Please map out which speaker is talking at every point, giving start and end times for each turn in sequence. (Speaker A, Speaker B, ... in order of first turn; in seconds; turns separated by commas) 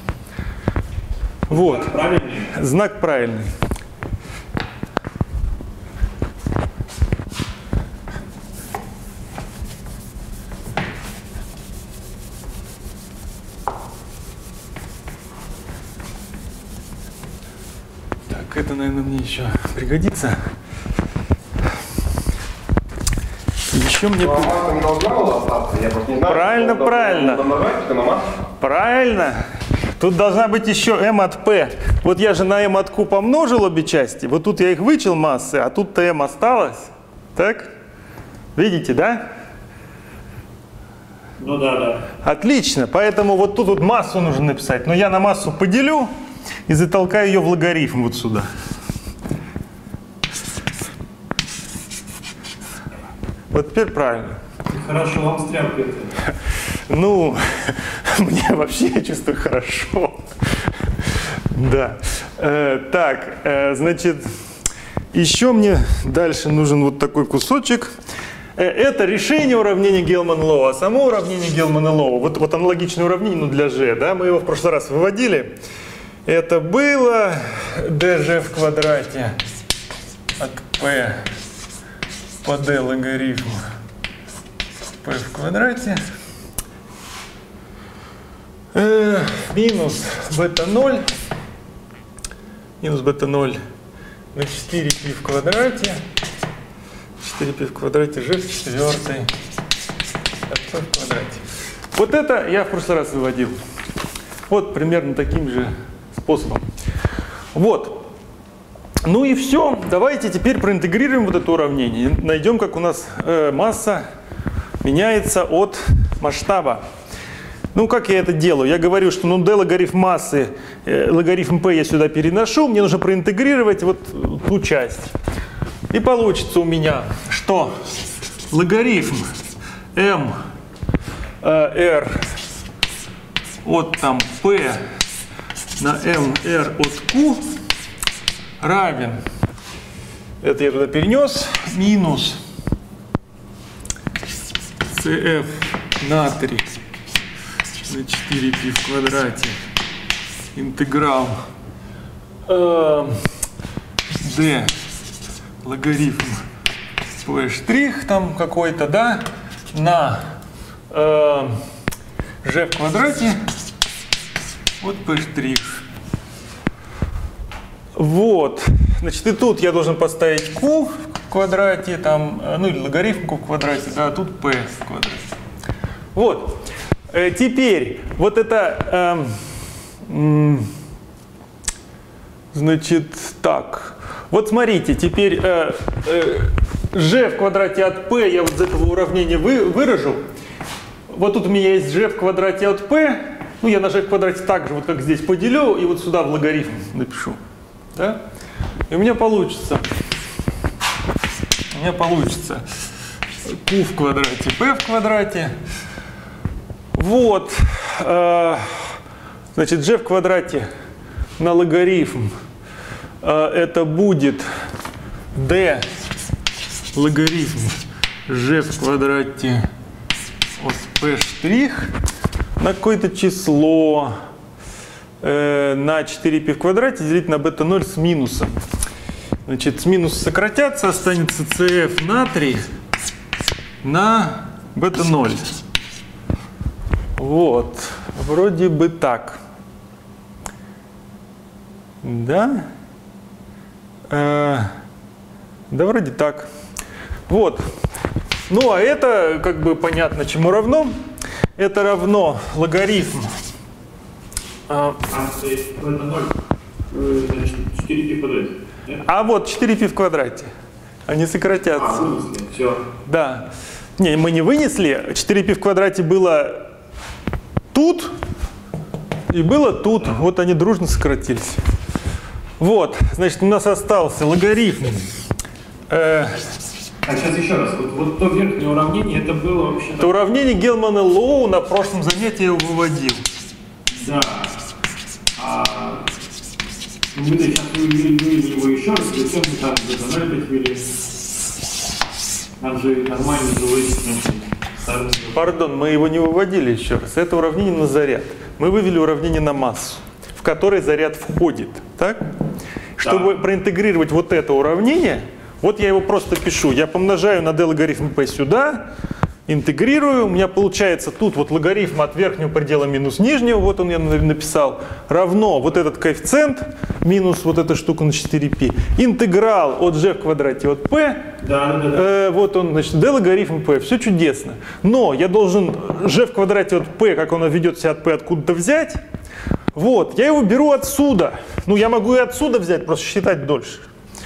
Speaker A: 1.5-1.9, Speaker B: 1.5-2.6, Speaker A: 2.5-3.5, Speaker A: 18.3-20.4, Speaker A: 23.7-24.5, Speaker C: 24.2-28.3, Speaker A: 26.2-27.4, Speaker A: 28.6-29.4, Speaker A: 30.0-37.7, Speaker A: 38.5-39.2, Speaker B: 41.4-42.1, Speaker A: 42.2-46.1, Speaker A: 46.7-48.5, Speaker A: 53.5-54.4, Speaker B: 54.7-56.2, Speaker A: 56.9-60.3, Speaker A: 61.5-64.3, Speaker A: 65.1-67.9, Speaker A: 68.6-75.5, Speaker A: 76.2-79.3, Speaker A: 80.4-81.2, Speaker A: 82.4-83.6, Speaker A: 85.0-86.0, Speaker A: 88.7-91.1, Speaker A: 92.8-93.6, Speaker A: 94.3-96.0, Speaker A: 97.2-99.3, Speaker A: 100.5-101.4, Speaker A: 101.9-103.5, Speaker A: 104.5-106.7, Speaker A: 107.5-108.0, Speaker A: 109.0-114.0, Speaker A: 114.8-116.8, Speaker A: 117.7-125.1, Speaker A: 125.9-127.8, Speaker A: 128.5-129.3, Speaker A: 129.9-130.3, Speaker A: 131.4-132.2, Speaker A: 133.6-134.8, Speaker A: 135.8-137.4, Speaker A: 138.6-139.2, Speaker A: 140.4-142.4, Speaker A: 144.9-146.7, Speaker A: 147.9-149.6, Speaker A: 150.5-151.3, Speaker A: 152.4-153.2, Speaker A: 154.2-154.7, Speaker A: 155.6-156.4, Speaker A: 157.2-160.3, Speaker A: 160.9-161.5, Speaker A: 162.4-163.4, Speaker A: 164.8-165.8, Speaker A: 167.9-175.2, Speaker A: 176.1-176.6, Speaker A: 177.1-179.3, Speaker A: 180.1-180.7, Speaker A: 182.5-190.2, Speaker A: 191.1-197.4, Speaker A: 198.9-199.9, Speaker A: 201.7-202.6, Speaker A: 203.4-205.5, Speaker A: 206.9-208.9, Speaker A: 209.6-210.7, Speaker A: 211.4-212.3, Speaker A: 213.2-214.5, Speaker A: 215.3-215.8, Speaker A: 216.9-219.7, Speaker A: 220.6-221.9, Speaker A: 222.6-224.1, Speaker A: 225.2-228.6, Speaker A: 229.4-232.6, Speaker A: 233.8-235.5, Speaker A: 237.2-239.4, Speaker A: 242.0-242.7, Speaker A: 244.1-244.7, Speaker A: 245.7-246.5, Speaker A: 247.3-247.6, Speaker A: 248.5-251.0, Speaker A: 251.6-253.3, Speaker A: 254.7-255.0, Speaker B: 255.1-256.4, Speaker B: 256.9-259.0, Speaker A: 259.0-260.5, Speaker A: 261.1-262.1, Speaker B: 261.8-262.8, Speaker A: 263.1-266.6, Speaker A: 267.7-268.1, Speaker A: 269.3-271.6, Speaker A: 272.6-275.1, Speaker A: 275.9-276.4, Speaker B: 277.0-280.1, Speaker A: 280.0-283.2, Speaker B: 283.9-284.6, Speaker B: 285.4-286.1, Speaker B: 287.1-290.9, Speaker B: 292.6-295.5, Speaker A: 295.3-302.2, Speaker A: 303.0-308.9, Speaker B: 303.0-303.3, Speaker A: 309.5-321.2, Speaker B: 321.4-322.1, Speaker A: 321.9-329.0, Speaker A: 329.7-333.9